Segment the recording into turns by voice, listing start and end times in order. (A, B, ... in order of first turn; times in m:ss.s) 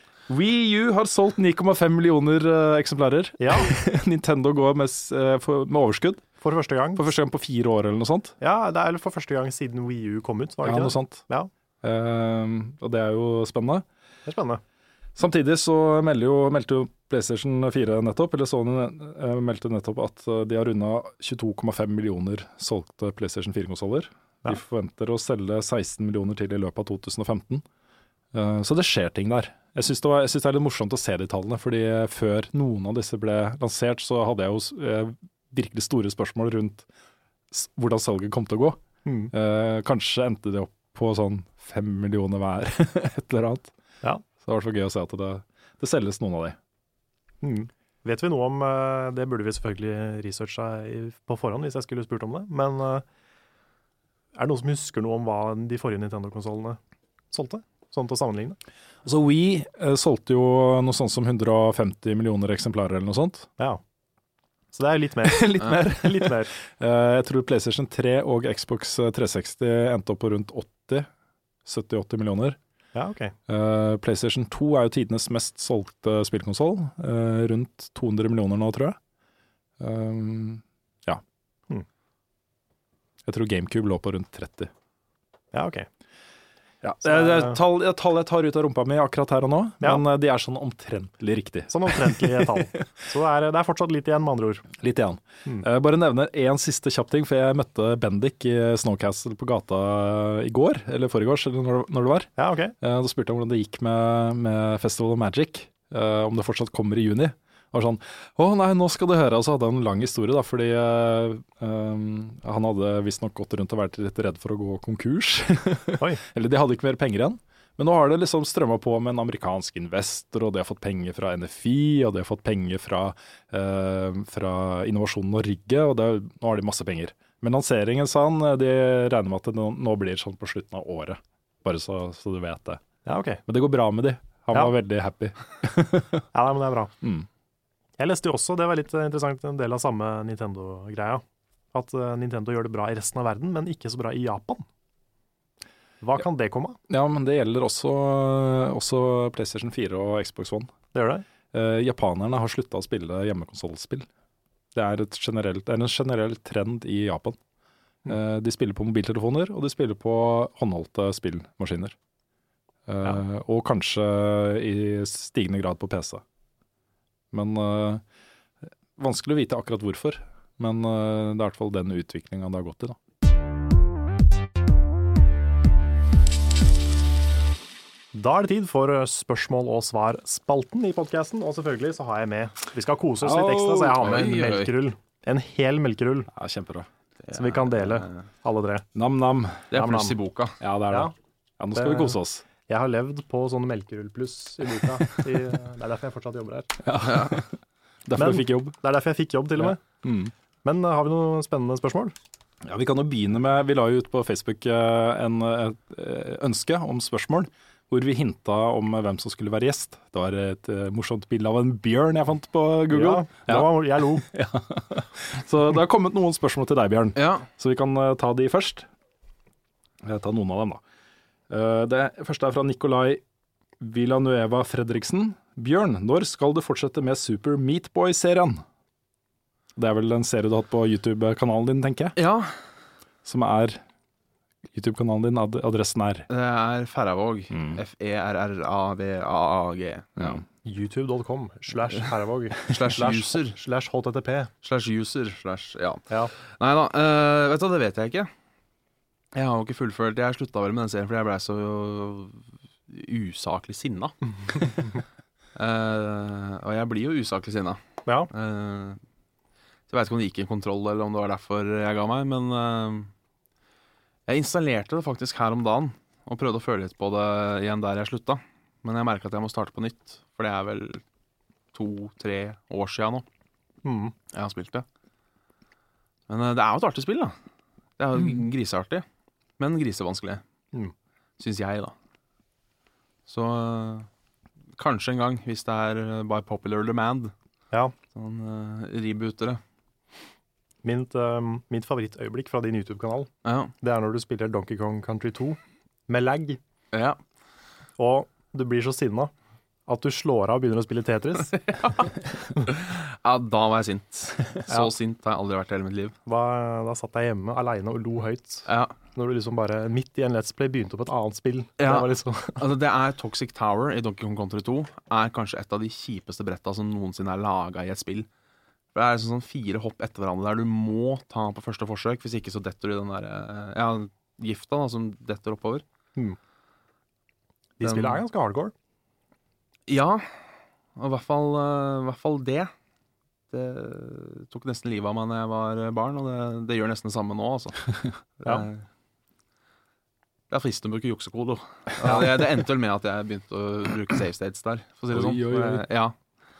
0:00.3-0:06.3 A
0:03.4-0:03.7 B
0:06.4-0:07.0 B
0:07.0-0:08.4 A
0:08.4-0:11.5 B
0:10.6-0:11.2 A
0:11.8-0:13.8 A
0:14.3-0:14.6 B
0:15.2-0:27.6 A
0:28.3-0:36.9 A
0:37.5-0:38.8 A
0:39.0-0:39.3 B
0:39.3-0:43.7 A
0:44.4-0:46.6 A
0:47.4-0:53.0 B
0:54.4-0:56.8 B
0:57.3-0:58.6 B
0:59.0-1:03.5 A
1:04.7-1:06.5 B
1:05.2-1:11.1 A
1:11.6-1:12.6 A
1:13.0-1:13.4 B
1:13.5-1:19.0 A
1:19.8-1:21.2 A
1:23.2-1:24.7 A
1:25.5-1:25.9 B
1:26.8-1:32.8 A
1:27.0-1:27.6 B
1:31.7-1:34.7 B
1:34.8-2:12.8 A
1:42.4-1:42.7 B
2:13.1-2:13.4 B
2:13.5-2:16.2 A
2:16.3-2:16.9 B
2:17.0-2:17.3 A
2:18.0-2:24.7 B
2:26.0-2:26.8 B
2:26.9-2:30.7 A
2:30.9-2:31.2 B
2:31.5-2:34.1 A
2:34.7-2:37.4 A
2:38.1-2:42.0 A
2:42.9-2:46.2 A
2:47.3-2:48.0 A
2:49.0-2:53.0 A
2:58.1-3:06.3 B
3:03.2-3:04.2 A
3:04.0-3:04.7 C
3:06.3-3:06.9 A
3:07.2-3:08.2 C
3:07.3-3:08.9 B
3:09.0-3:09.7 A
3:09.7-3:10.6 C
3:09.7-3:10.2 B
3:10.6-3:12.4 A
3:11.8-3:16.8 B
3:16.8-3:18.8 A
3:17.0-3:17.4 C
3:18.2-3:19.8 B
3:19.6-3:20.3 A
3:20.6-3:22.1 B
3:22.6-3:38.9 A
3:32.9-3:34.3 B
3:37.2-3:37.5 C
3:40.0-3:40.8 A
3:41.5-3:43.2 A
3:43.8-3:48.6 A
3:49.8-3:52.2 A
3:52.2-3:52.5 C
3:53.2-3:53.8 A
3:54.7-3:56.3 A
3:56.3-4:00.4 C
3:57.5-3:57.8 A
4:00.6-4:04.5 B
4:02.7-4:03.6 C
4:04.6-4:08.3 C
4:09.3-4:14.8 C
4:15.6-4:19.0 C
4:19.9-4:23.1 C
4:24.3-4:31.0 C
4:31.7-4:33.2 C
4:33.8-4:34.1 B
4:34.3-4:34.9 C
4:36.3-4:37.4 C
4:38.0-4:39.0 C
4:39.6-4:40.4 C
4:41.4-4:41.9 C
4:43.3-4:44.1 C
4:44.8-4:47.3 C
4:48.1-4:49.6 C
4:50.8-4:53.3 B
4:53.4-4:53.7 C
4:53.8-4:56.6 B
4:56.9-4:57.2 C
4:58.0-4:59.3 B
4:59.9-5:01.6 B
5:01.7-5:02.1 C
5:02.6-5:06.2 C
5:06.3-5:12.6 B
5:08.7-5:09.0 C
5:11.8-5:18.3 C
5:18.9-5:25.8 C
5:27.8-5:28.7 B
5:27.8-5:28.2 C
5:29.9-5:30.3 C
5:31.0-5:32.7 C
5:33.5-5:38.8 C
5:40.5-5:46.2 C
5:45.1-5:45.9 A